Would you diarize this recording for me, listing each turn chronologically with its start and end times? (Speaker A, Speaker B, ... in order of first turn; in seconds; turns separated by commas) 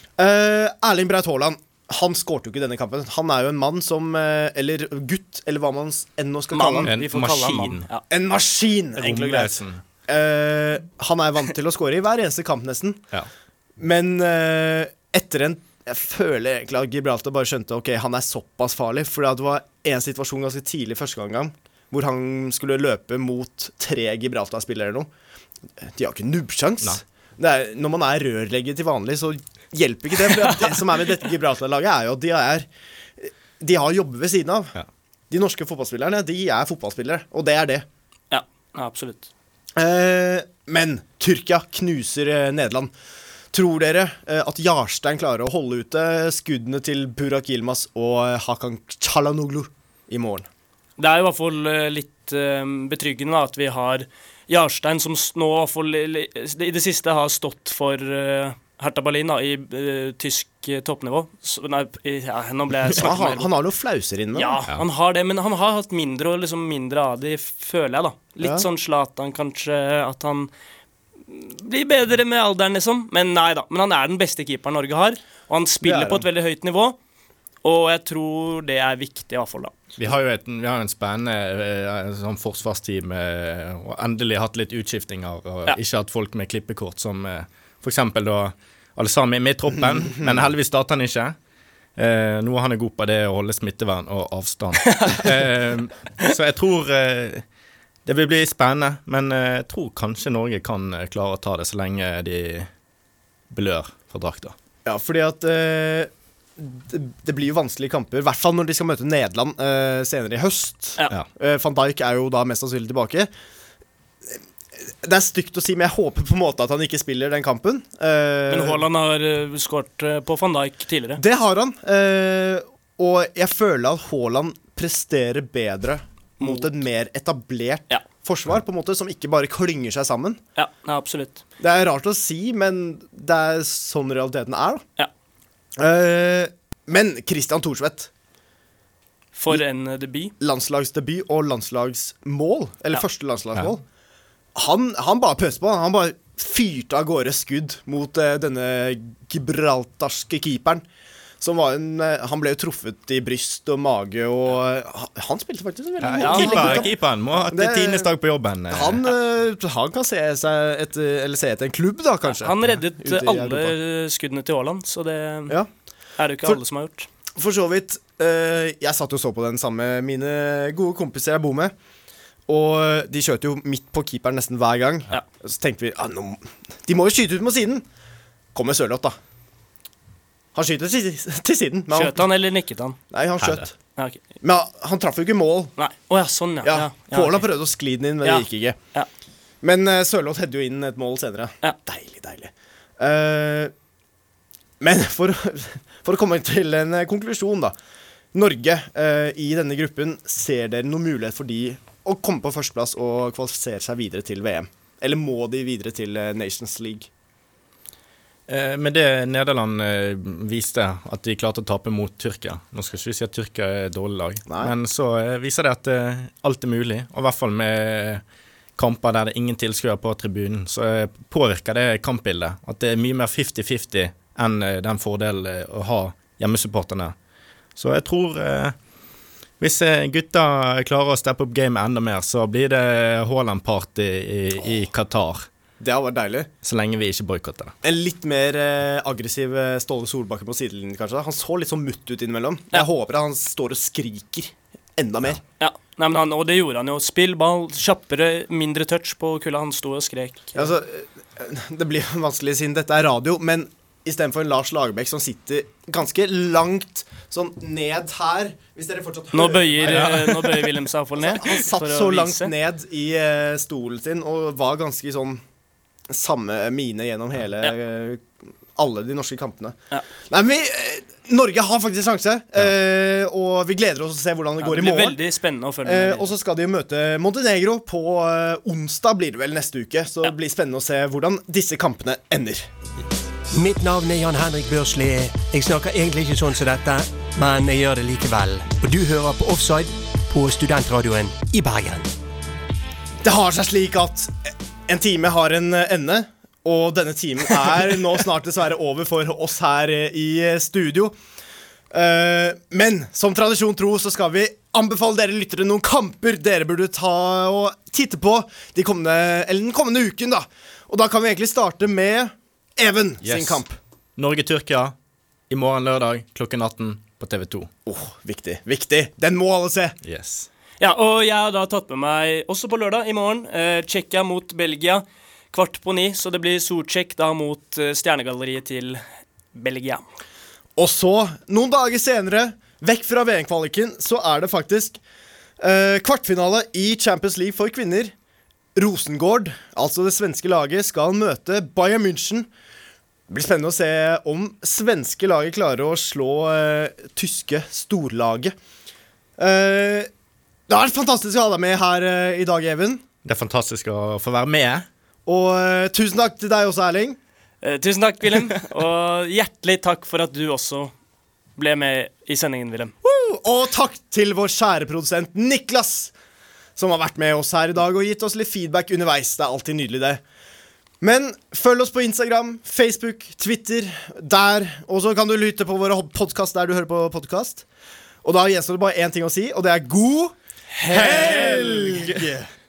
Speaker A: 0.2-6.9, Speaker B: 6.5-8.0, Speaker C: 6.8-7.9, Speaker A: 8.1-13.0, Speaker C: 9.0-9.8, Speaker A: 13.8-25.1, Speaker A: 25.8-32.7, Speaker A: 33.2-34.7, Speaker A: 35.3-37.9, Speaker B: 38.3-39.3, Speaker A: 39.8-42.9, Speaker A: 43.5-50.5, Speaker B: 51.0-63.5, Speaker A: 62.9-64.6, Speaker B: 64.3-70.5, Speaker A: 68.4-68.7, Speaker B: 71.3-77.0, Speaker A: 75.8-76.3, Speaker B: 77.6-79.7, Speaker C: 80.0-91.3, Speaker C: 92.0-97.4, Speaker B: 94.9-95.2, Speaker C: 98.0-102.7, Speaker C: 103.5-104.5, Speaker A: 104.8-113.3, Speaker A: 114.3-118.8, Speaker B: 118.5-121.2, Speaker A: 121.2-130.4, Speaker B: 126.4-126.7, Speaker B: 130.6-131.4, Speaker A: 131.6-134.8, Speaker A: 135.8-138.1, Speaker B: 139.3-140.3, Speaker A: 140.4-143.8, Speaker A: 144.5-150.8, Speaker A: 151.4-158.1, Speaker C: 156.0-159.1, Speaker B: 156.2-156.9, Speaker A: 158.7-163.8, Speaker B: 162.3-165.6, Speaker B: 166.2-167.1, Speaker A: 167.3-171.7, Speaker A: 172.5-177.8, Speaker A: 178.5-179.2, Speaker A: 180.5-182.3, Speaker B: 181.9-183.0, Speaker A: 183.1-183.7, Speaker C: 183.4-183.7, Speaker B: 183.9-184.2, Speaker A: 184.4-185.7, Speaker B: 185.8-187.4, Speaker A: 186.6-188.8, Speaker B: 188.2-189.1, Speaker A: 189.6-193.7, Speaker A: 194.8-197.7, Speaker A: 198.3-207.1, Speaker C: 208.5-218.2, Speaker A: 214.5-214.7, Speaker C: 218.8-227.1, Speaker C: 227.8-228.7, Speaker C: 229.6-235.5, Speaker A: 235.8-236.5, Speaker C: 236.6-237.7, Speaker A: 237.8-245.4, Speaker B: 245.6-250.7, Speaker A: 250.5-260.3, Speaker B: 259.3-262.5, Speaker C: 259.9-260.6, Speaker A: 261.1-265.4, Speaker A: 266.1-269.8, Speaker A: 270.3-275.2, Speaker B: 274.6-276.3, Speaker A: 275.8-282.7, Speaker D: 283.5-292.1, Speaker A: 293.2-301.1, Speaker A: 301.9-313.8, Speaker C: 313.2-313.6, Speaker C: 314.2-314.9, Speaker C: 315.5-317.7, Speaker A: 317.9-319.9, Speaker C: 320.0-320.5, Speaker B: 320.8-329.0, Speaker B: 329.5-330.0, Speaker A: 330.8-335.0, Speaker A: 335.6-338.1, Speaker A: 338.7-342.5, Speaker A: 343.3-348.5, Speaker A: 349.4-350.1, Speaker A: 350.7-353.0, Speaker C: 353.2-354.9, Speaker A: 355.2-357.2, Speaker B: 357.6-360.9, Speaker B: 361.6-362.9, Speaker A: 363.0-366.1, Speaker A: 366.8-370.2, Speaker A: 371.0-377.6, Speaker A: 378.2-382.5, Speaker C: 380.8-382.3